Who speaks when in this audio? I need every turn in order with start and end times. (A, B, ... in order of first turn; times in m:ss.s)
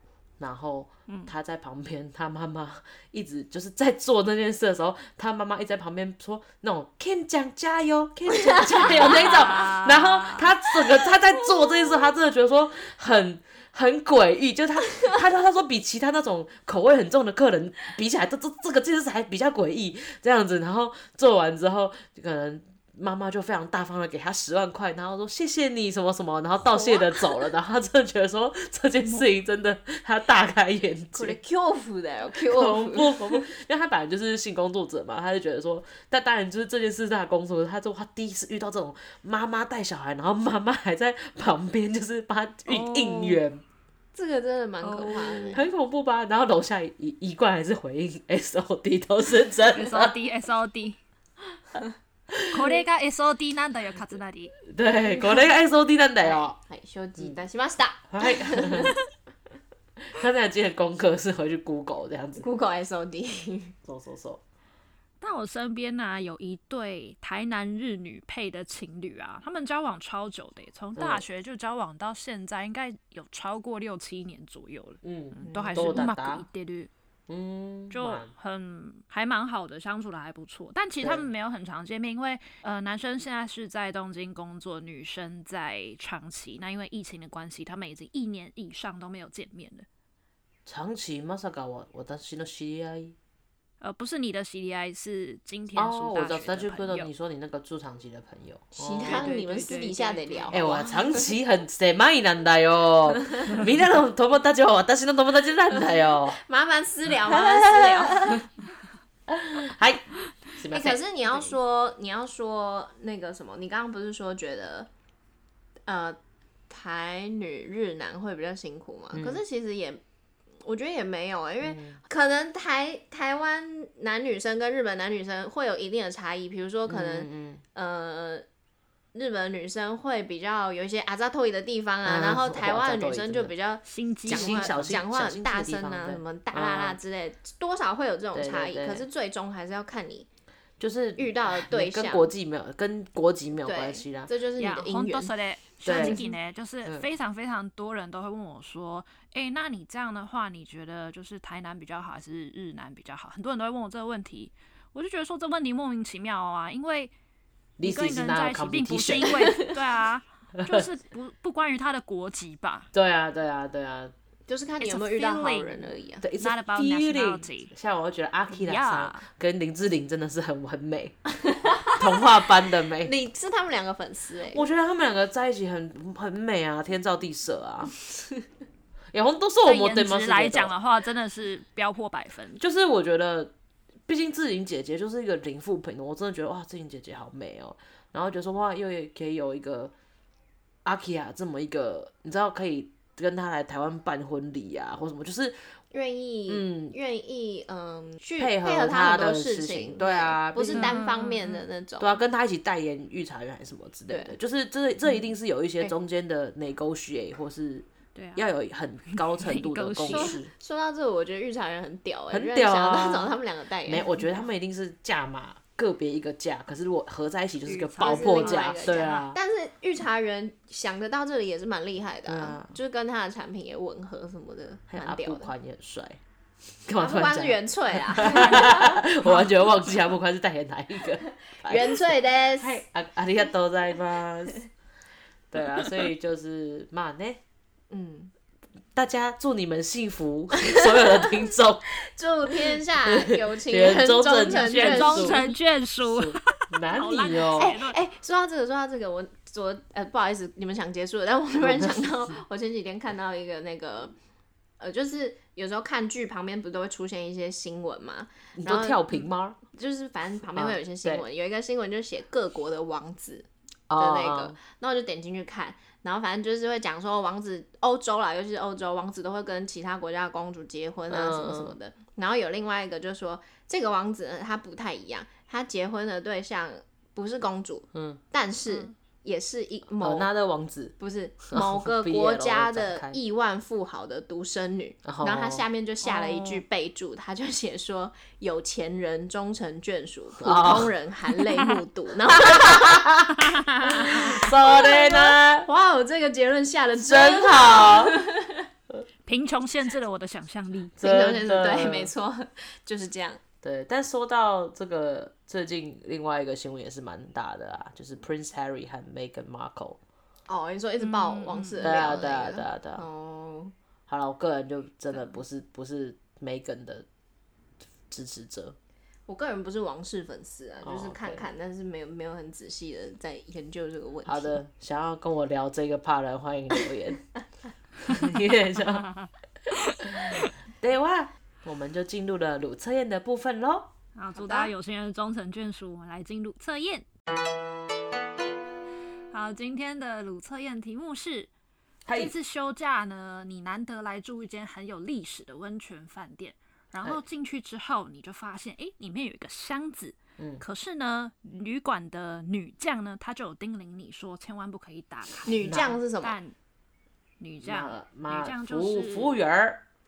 0:00.4-0:31.4 A
0:08.4-0:09.3 B
0:08.8-0:10.5 C
0:26.7-0:27.2 B
0:29.0-0:29.3 C
0:31.1-0:33.4 B
0:32.4-0:43.6 A
0:42.7-0:43.4 C
0:44.2-0:45.6 B
0:44.8-0:45.6 C
0:45.5-0:50.1 A
0:49.7-0:51.0 C
0:52.3-0:52.6 A
0:52.5-0:54.6 C
0:54.7-0:56.6 A
0:56.2-0:59.0 B
0:58.1-0:59.0 A
1:00.0-1:02.5 A
1:02.4-1:03.8 B
1:03.8-1:04.4 A
1:05.2-1:16.9 C
1:11.0-1:11.2 A
1:15.0-1:16.4 A
1:15.4-1:16.0 B
1:17.3-1:18.3 A
1:17.9-1:29.9 C
1:21.0-1:21.3 A
1:30.7-1:33.2 A
1:33.8-1:37.1 C
1:35.7-1:39.3 A
1:38.8-1:41.3 B
1:39.0-1:40.6 C
1:40.5-1:46.4 A
1:46.3-1:48.5 B
1:47.3-1:48.4 A
1:49.3-1:51.0 A
1:50.7-1:54.9 B
1:55.9-1:56.2 B
1:56.7-2:00.0 B
1:59.1-1:59.4 A
2:00.6-2:08.5 B
2:01.6-2:02.0 A
2:06.9-2:07.6 A
2:09.1-2:20.3 B
2:12.0-2:13.5 A
2:13.8-2:14.8 C
2:14.3-2:17.0 A
2:18.3-2:19.1 A
2:20.8-2:24.3 A
2:21.2-2:22.3 B
2:23.6-2:25.3 B
2:24.6-2:37.1 C
2:25.8-2:26.2 A
2:25.9-2:26.3 B
2:37.8-2:39.6 A
2:37.8-2:42.9 C
2:40.6-2:40.9 A
2:42.9-2:44.1 A
2:44.5-2:46.2 B
2:44.8-2:47.7 C
2:46.2-2:51.2 A
2:48.5-2:49.2 C
2:51.4-2:52.3 B
2:51.8-2:53.1 A
2:53.0-2:54.7 B
2:54.5-2:58.0 A
2:59.1-3:00.7 A
2:59.6-3:02.6 C
3:02.6-3:03.5 A
3:04.1-3:09.9 A
3:10.8-3:15.8 A
3:15.9-3:22.2 B
3:16.5-3:17.0 A
3:18.4-3:21.0 A
3:20.7-3:21.6 C
3:22.0-3:30.5 A
3:24.1-3:24.4 B
3:28.2-3:28.5 C
3:29.1-3:30.4 C
3:30.0-3:34.4 B
3:32.3-3:33.3 A
3:33.8-3:39.4 A
3:37.7-3:39.3 C
3:38.0-3:45.5 B
3:42.3-3:42.7 A
3:44.9-3:46.2 A
3:46.9-3:52.1 A
3:47.0-3:49.0 B
3:49.2-3:49.6 C
3:51.6-3:52.8 B
3:52.6-3:54.7 A
3:55.5-3:57.4 A
3:57.9-3:58.3 B
3:59.0-4:01.9 A
4:00.7-4:01.1 B
4:02.0-4:05.6 B
4:03.1-4:05.4 A
4:04.5-4:08.0 C
4:06.0-4:07.8 A
4:07.6-4:14.1 B
4:11.6-4:12.4 A
4:14.8-4:19.0 B
4:18.6-4:19.6 A
4:19.7-4:40.3 B
4:20.6-4:21.2 A
4:23.9-4:24.6 A
4:31.1-4:31.8 A
4:37.9-4:38.2 A
4:40.0-4:41.0 A
4:41.0-4:53.2 B
4:41.5-4:43.2 A
4:45.0-4:45.7 A
4:50.4-4:50.9 A
4:52.3-4:55.7 A
4:53.8-4:58.6 B
4:57.0-4:58.2 A
4:59.3-5:01.0 C
5:01.0-5:02.1 A
5:01.0-5:03.4 B
5:03.6-5:10.0 A
5:10.5-5:13.7 B
5:11.0-5:11.8 C
5:11.8-5:13.0 A
5:14.1-5:17.1 A
5:18.1-5:18.8 A
5:19.3-5:24.6 B
5:20.8-5:21.5 A
5:24.3-5:27.3 A
5:28.0-5:29.1 A
5:29.0-5:29.3 C
5:29.8-5:30.5 C
5:30.0-5:33.9 A
5:34.2-5:37.1 C
5:34.3-5:34.7 B
5:39.3-5:41.5 C
5:42.1-5:42.3 A
5:42.1-5:56.6 C
5:50.4-5:50.6 A
5:55.4-5:56.4 B
5:55.6-5:56.0 A
5:57.4-5:59.3 C
5:57.6-5:59.8 A